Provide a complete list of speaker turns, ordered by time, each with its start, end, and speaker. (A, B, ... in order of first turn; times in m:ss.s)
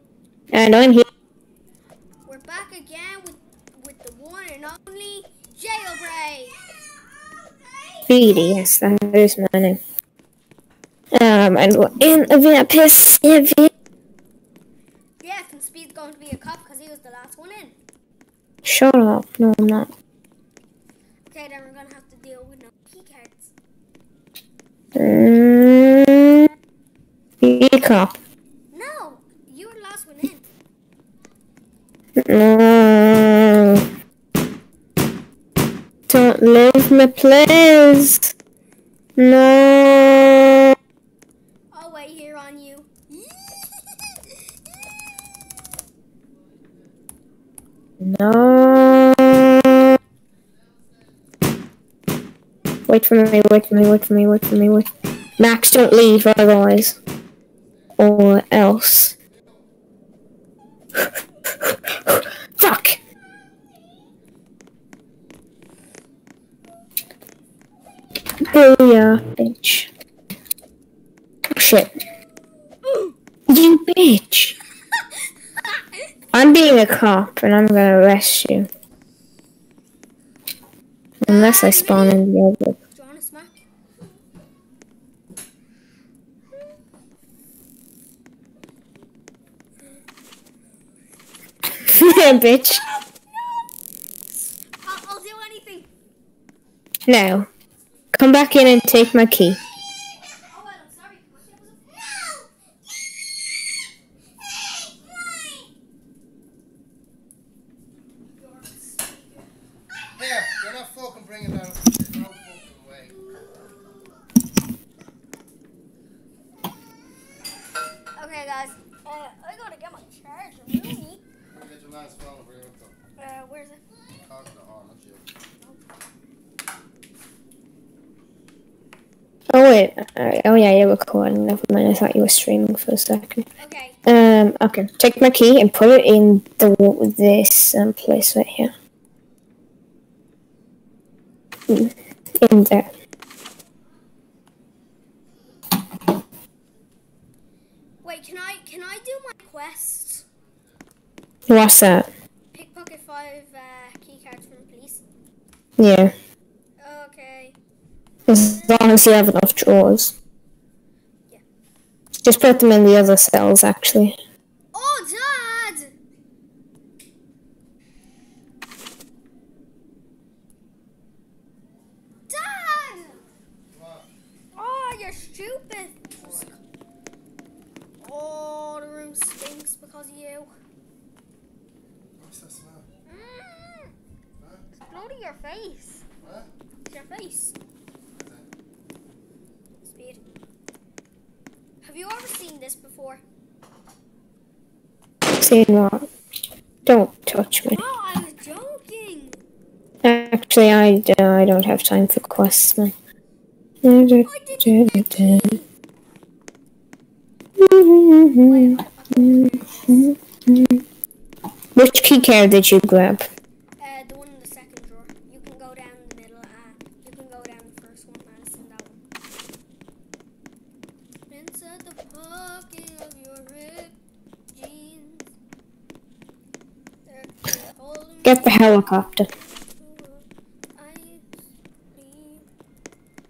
0:00.5-0:01.1 A
0:02.2-0:06.6 B
0:08.1-0:09.8 A
0:11.1-0:13.7 A
0:15.2-0:17.8 B
0:18.6-0:19.9 A
0:21.3-0:23.5 B
0:24.9-0:26.5 A
0:27.4-0:28.1 A
0:28.7-0:30.4 B
0:32.2-0:33.8 A
0:36.1-0:38.3 A
0:39.2-0:40.8 A
0:41.7-0:43.9 B
0:48.0-0:50.0 A
0:52.9-0:57.0 A
0:58.0-0:59.1 A
1:01.0-1:03.0 A
1:08.4-1:09.9 A
1:11.5-1:11.9 A
1:12.8-1:13.1 B
1:13.5-1:14.5 A
1:14.9-1:16.1 B
1:16.3-1:18.7 A
1:21.2-1:22.2 B
1:21.2-1:22.8 A
1:22.9-1:23.6 B
1:31.8-1:32.8 A
1:31.9-1:33.7 B
1:34.5-1:35.9 B
1:37.1-1:37.5 A
1:38.1-1:39.6 A
1:40.3-1:42.5 B
1:44.8-1:45.7 B
1:48.3-1:49.5 B
1:50.2-1:53.1 C
1:58.1-2:01.2 B
2:01.5-2:02.9 C
2:03.2-2:03.8 B
2:04.3-2:05.2 C
2:09.5-2:13.4 A
2:13.6-2:14.0 B
2:14.0-2:18.7 A
2:21.7-2:22.9 A
2:28.0-2:30.2 B
2:31.5-2:32.1 A
2:32.5-2:35.0 B
2:35.8-2:36.1 A
2:36.8-2:37.6 B
2:38.3-2:40.1 A
2:38.3-2:39.0 B
2:42.2-2:44.2 A
2:44.7-2:45.9 B
2:52.3-2:53.2 B
2:53.7-2:54.1 C
2:54.5-2:56.6 B
2:56.2-2:56.5 C
2:58.0-3:00.5 B
3:02.2-3:02.9 C
3:03.0-3:03.9 B
3:04.9-3:06.0 B
3:06.2-3:06.5 C
3:06.8-3:07.5 B
3:08.1-3:08.4 C
3:09.8-3:10.2 B
3:11.8-3:13.2 B
3:15.4-3:16.1 A
3:16.8-3:17.8 A
3:17.6-3:19.4 B
3:20.0-3:22.9 A
3:23.8-3:25.6 A
3:24.2-3:25.7 B
3:27.6-3:30.8 A
3:28.3-3:30.2 B
3:31.8-3:33.2 A
3:33.8-3:39.0 B
3:41.3-3:44.0 B
3:44.5-3:45.3 B
3:47.0-3:51.4 B
3:48.2-3:49.3 A
3:51.9-3:52.5 B